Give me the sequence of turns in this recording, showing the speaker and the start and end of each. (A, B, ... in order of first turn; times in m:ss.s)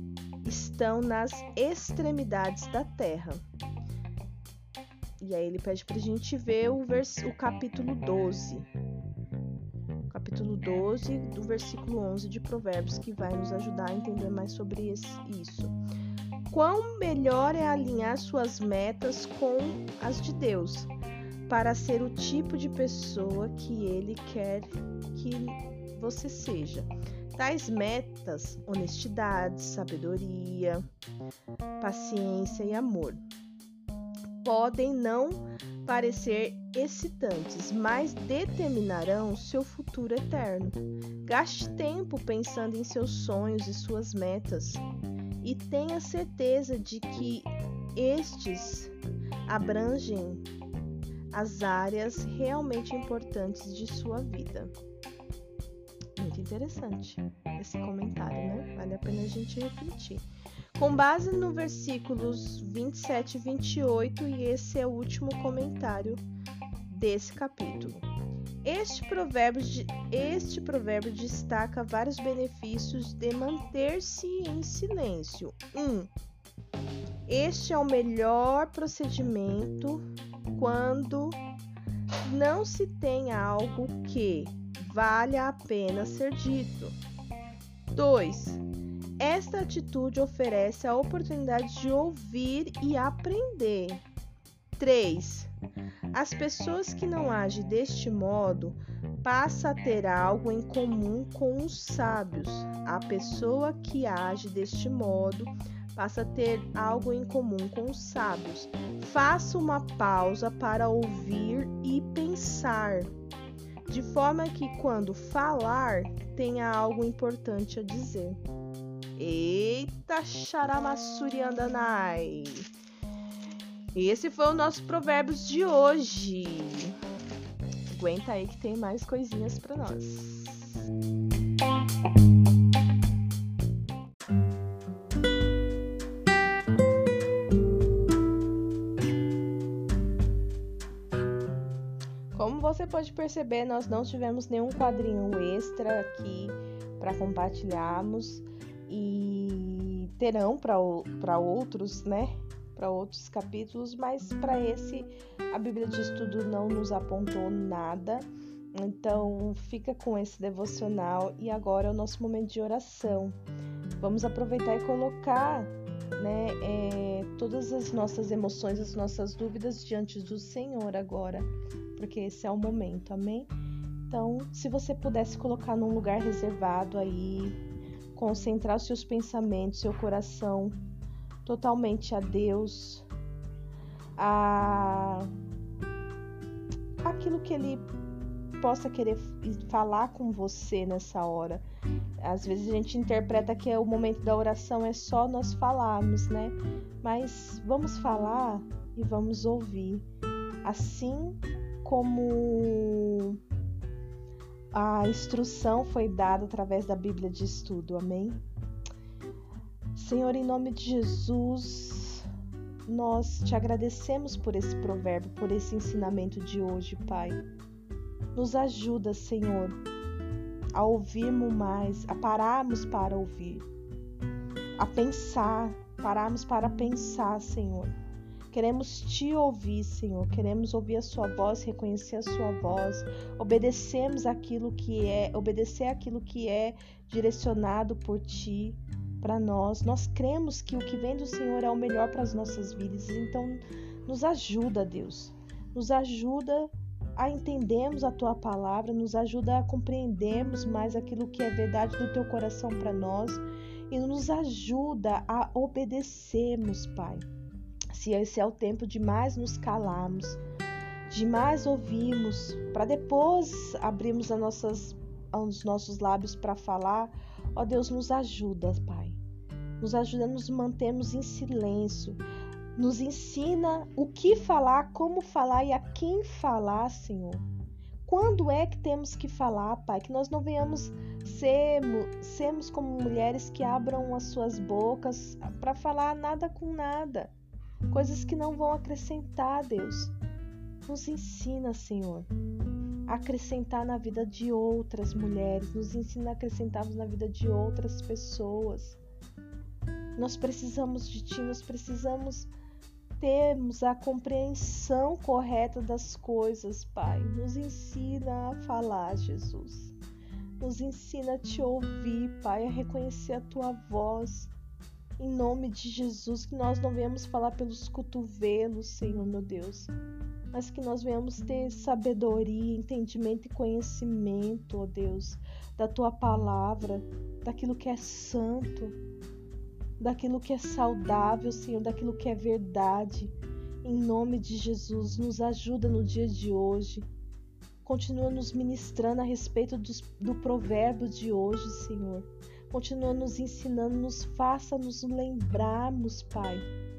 0:00.4-0:03.4 A
0:05.2-0:08.7 A
0:10.1-0:15.7 A
0:16.5-0:20.9 A
0:21.5-0:30.8 A
0:31.8-0:33.2 A
0:34.4-0:44.8 A
0:45.4-0:48.9 A
0:49.5-0:50.4 A
0:51.3-0:54.7 A
0:56.2-1:06.2 A
1:06.9-1:08.0 A
1:08.6-1:16.1 A
1:17.2-1:21.4 A
1:22.2-1:27.0 A
1:27.9-1:28.6 A
1:29.2-1:34.0 A
1:34.8-1:35.5 A
1:36.1-1:53.1 A
1:53.9-1:58.4 A
1:59.2-2:02.7 A
2:03.9-2:07.0 A
2:07.9-2:10.7 A
2:22.3-2:43.4 A
2:44.0-2:53.5 A
2:54.1-2:57.6 A
2:58.1-3:00.8 A
3:01.4-3:03.1 A
3:04.2-3:05.3 A
3:07.0-3:07.9 A
3:08.6-3:11.6 A
3:12.2-3:20.1 A
3:20.6-3:23.4 A
3:24.7-3:28.4 A
3:29.9-3:32.3 A
3:32.8-3:37.4 A
3:38.3-3:39.8 A
3:40.7-3:43.7 A
3:44.8-3:47.9 A
3:48.5-4:17.2 A
4:17.9-4:20.4 A
4:21.1-4:29.2 A
4:29.8-4:32.2 A
4:32.8-4:37.4 A
4:38.0-4:47.3 A
4:47.9-4:50.1 A
4:50.8-4:52.3 A
4:53.1-4:59.0 A
5:00.2-5:02.5 A
5:03.2-5:09.9 A
5:10.6-5:14.5 A
5:15.2-5:19.9 A
5:20.5-5:29.0 A
5:30.0-5:37.1 A
5:37.8-5:46.7 A